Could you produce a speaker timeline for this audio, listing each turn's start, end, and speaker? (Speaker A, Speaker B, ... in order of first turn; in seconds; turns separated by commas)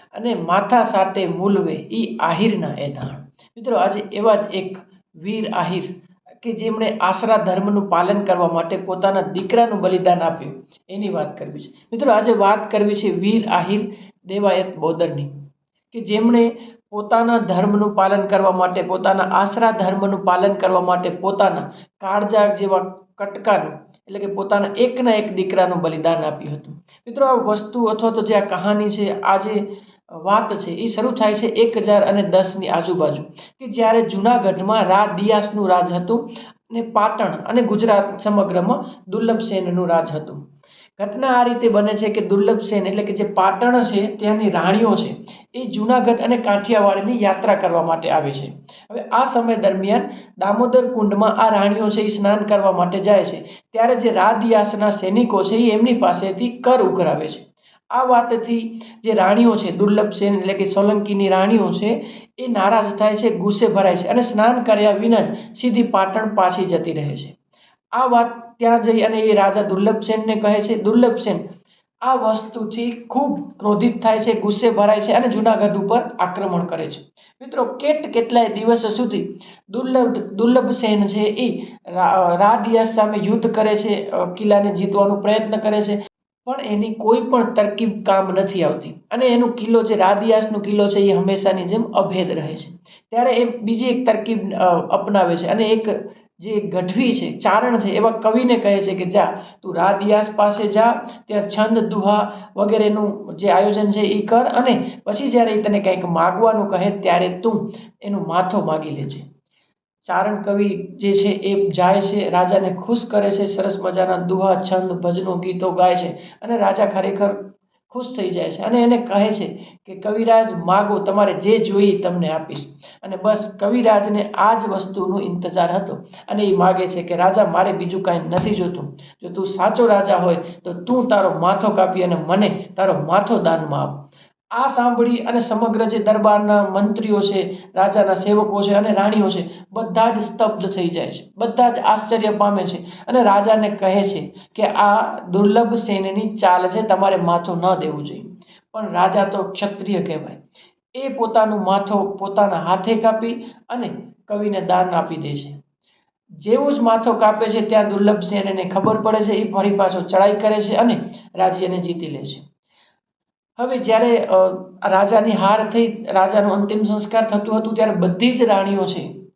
Speaker A: 0.1-15.3, Speaker A: 15.9-40.4, Speaker A: 41.0-67.3, Speaker A: 68.0-71.4, Speaker A: 72.0-109.2, Speaker A: 110.0-150.4, Speaker A: 150.9-155.6, Speaker A: 156.4-162.4, Speaker A: 163.6-169.2